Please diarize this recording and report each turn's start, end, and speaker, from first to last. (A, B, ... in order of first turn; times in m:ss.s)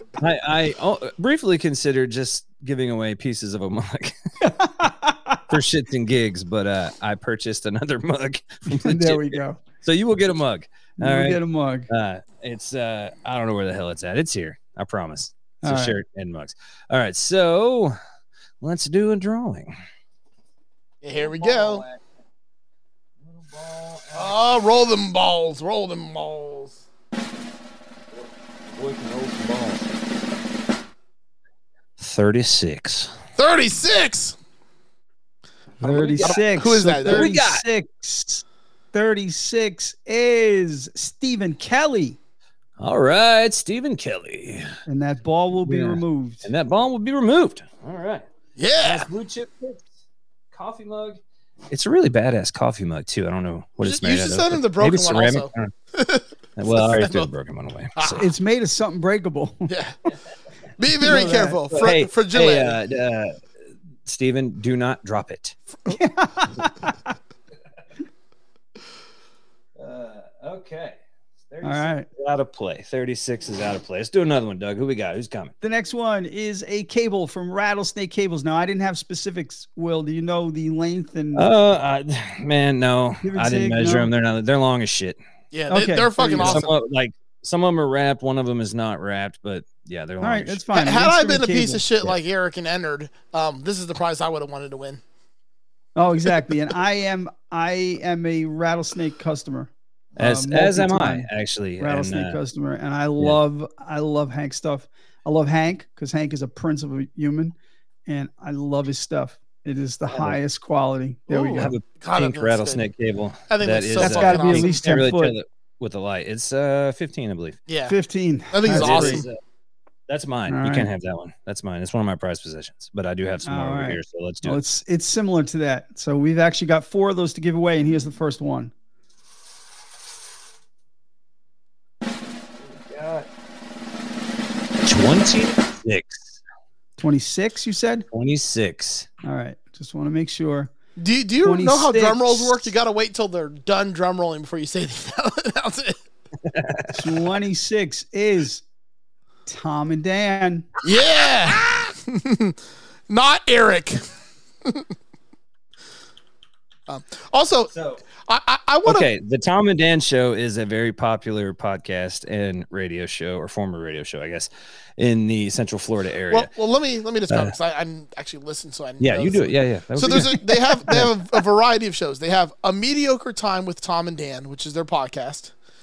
0:00.2-0:04.1 A
0:04.4-0:05.4 B
0:05.5-0:18.0 A
0:08.7-0:09.6 B
0:11.0-0:11.9 B
0:15.6-0:16.0 B
0:18.6-0:19.8 A
0:21.0-0:21.8 C
0:21.2-0:22.0 A
0:23.2-0:24.4 A
0:24.1-0:26.8 C
0:28.1-0:29.9 A
0:32.0-0:33.2 A
0:33.4-0:34.4 C
0:35.8-0:36.4 A
0:35.8-0:42.2 B
0:36.2-0:37.3 C
0:37.0-0:37.6 A
0:42.8-0:44.8 A
0:44.9-0:46.5 B
0:45.6-0:48.3 A
0:48.6-0:49.1 C
0:48.8-0:49.9 A
0:50.5-0:55.7 A
0:53.8-0:57.3 C
0:56.6-0:58.2 A
0:58.0-0:59.7 B
0:59.7-0:59.9 C
1:00.8-1:02.8 C
1:01.0-1:01.6 B
1:01.7-1:03.4 A
1:04.0-1:05.6 A
1:05.9-1:07.0 B
1:09.8-1:11.0 A
1:11.5-1:15.5 A
1:11.6-1:12.1 B
1:15.6-1:21.5 B
1:21.4-1:25.2 A
1:23.2-1:24.1 B
1:25.5-1:26.7 C
1:25.7-1:26.6 B
1:26.4-1:30.6 A
1:30.2-1:31.9 B
1:30.7-1:35.0 C
1:36.0-1:41.3 B
1:40.2-1:42.4 A
1:41.8-1:47.6 B
1:48.1-1:51.8 B
1:50.1-1:50.4 A
1:51.3-1:52.8 C
1:51.5-1:57.6 A
1:53.5-1:54.8 C
1:54.0-1:55.4 B
1:57.7-1:57.9 C
1:57.9-1:59.2 B
1:58.5-1:59.3 C
1:58.6-1:59.4 A
2:00.1-2:04.6 A
2:00.5-2:00.9 B
2:03.4-2:08.7 B
2:12.6-2:13.3 A
2:14.8-2:16.4 A
2:17.0-2:18.1 B
2:18.1-2:19.1 A
2:19.2-2:20.7 B
2:21.0-2:26.0 C
2:21.4-2:22.8 B
2:26.4-2:27.1 A
2:26.9-2:28.6 B
2:29.4-2:30.7 B
2:30.8-2:32.6 C
2:33.1-2:34.0 C
2:36.9-2:37.7 C
2:37.7-2:38.0 A
2:38.3-2:39.1 C
2:38.8-2:46.5 A
2:46.3-2:55.5 C
2:47.3-2:47.6 A
2:49.0-2:51.2 A